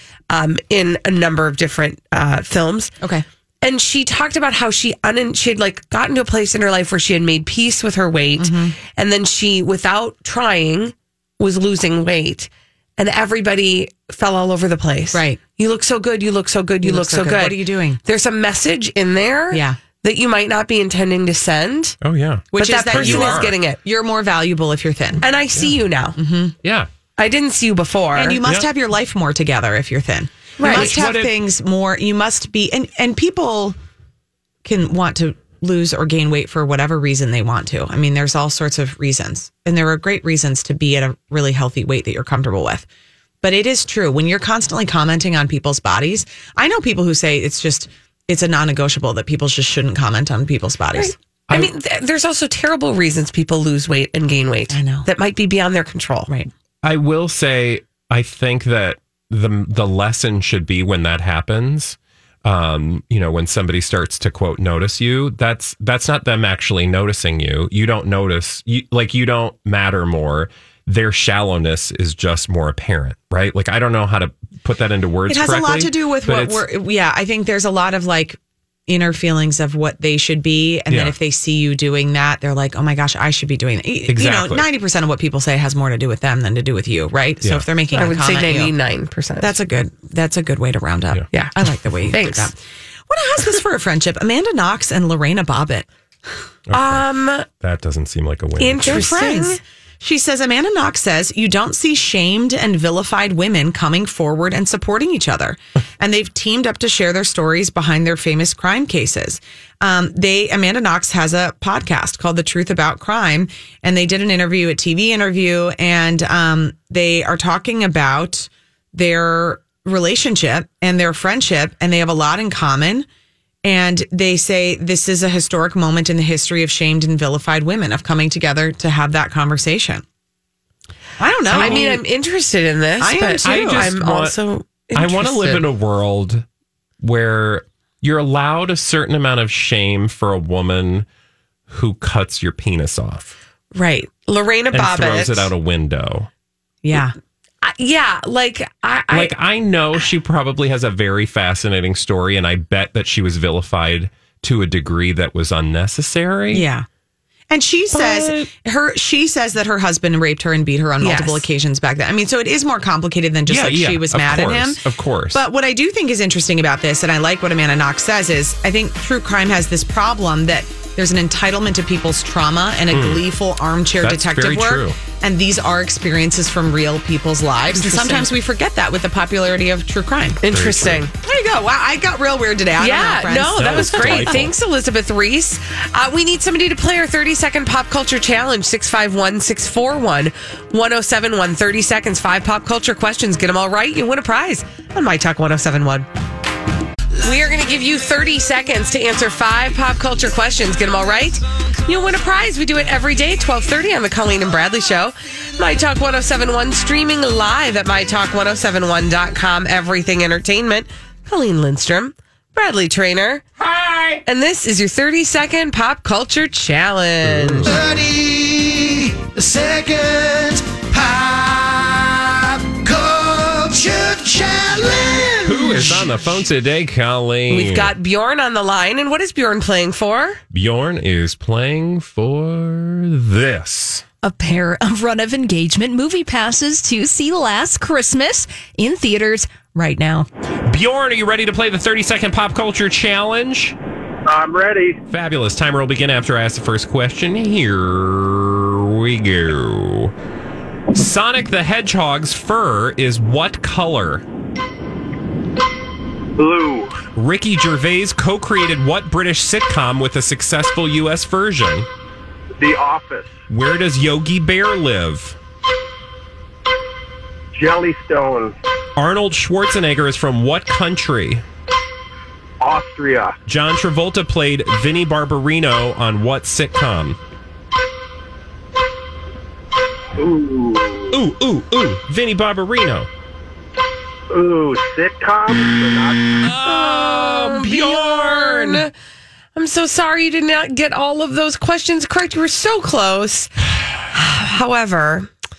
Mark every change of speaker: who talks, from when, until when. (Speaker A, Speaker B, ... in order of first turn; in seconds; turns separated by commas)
Speaker A: 0.3-2.9, Speaker B: 3.0-3.2, Speaker A: 3.6-21.9, Speaker B: 8.4-8.7, Speaker B: 15.1-15.4, Speaker B: 16.8-18.0, Speaker B: 19.5-19.8, Speaker C: 22.0-23.6, Speaker B: 22.5-25.2, Speaker A: 22.6-23.8, Speaker A: 25.2-26.2, Speaker B: 26.2-26.5, Speaker C: 26.6-26.9, Speaker A: 27.2-28.4, Speaker B: 28.1-33.8, Speaker A: 30.6-31.0, Speaker C: 30.6-31.4, Speaker B: 34.6-42.9, Speaker B: 43.4-51.1, Speaker A: 50.9-56.3, Speaker B: 54.7-55.1, Speaker C: 56.8-76.6, Speaker B: 75.3-88.7, Speaker C: 80.9-81.1, Speaker C: 84.1-84.7, Speaker A: 87.9-89.5, Speaker B: 89.4-92.6, Speaker A: 92.1-92.5, Speaker B: 93.1-95.8, Speaker C: 96.7-99.1, Speaker A: 96.7-97.5, Speaker A: 98.6-99.6, Speaker B: 98.8-123.0, Speaker B: 123.6-130.0, Speaker B: 131.2-132.0, Speaker C: 131.5-131.9, Speaker A: 131.5-135.6, Speaker B: 133.0-133.9, Speaker C: 133.4-134.4, Speaker C: 134.9-136.4, Speaker C: 137.0-141.1, Speaker C: 141.7-143.4, Speaker A: 143.7-145.5, Speaker C: 144.7-146.3, Speaker B: 146.8-147.1, Speaker A: 147.6-149.3, Speaker C: 149.1-156.7, Speaker B: 156.5-156.8, Speaker B: 157.5-180.4, Speaker C: 157.9-158.5, Speaker A: 161.0-161.4, Speaker C: 163.5-165.4, Speaker C: 172.9-173.2, Speaker C: 174.0-175.0, Speaker A: 177.7-178.3, Speaker A: 180.4-181.1, Speaker C: 180.5-181.0, Speaker B: 181.2-184.5, Speaker A: 182.8-196.1, Speaker C: 183.5-184.5, Speaker A: 197.2-213.4, Speaker A: 214.2-217.7, Speaker C: 217.2-217.7, Speaker D: 217.7-226.2, Speaker C: 225.4-227.9, Speaker A: 227.5-230.4, Speaker C: 230.5-234.0, Speaker E: 234.2-240.3, Speaker C: 240.7-243.7, Speaker F: 244.2-245.0, Speaker C: 245.1-250.1, Speaker C: 250.9-254.2, Speaker F: 256.4-257.0, Speaker C: 257.1-261.9, Speaker F: 262.6-263.3, Speaker C: 263.5-265.4, Speaker F: 267.5-268.6, Speaker C: 268.9-271.4, Speaker F: 272.6-273.4, Speaker C: 273.5-277.2, Speaker F: 280.1-281.2, Speaker C: 281.1-283.1, Speaker F: 284.3-286.4, Speaker C: 286.4-288.8, Speaker A: 286.6-288.9, Speaker A: 289.6-293.5, Speaker A: 294.1-295.3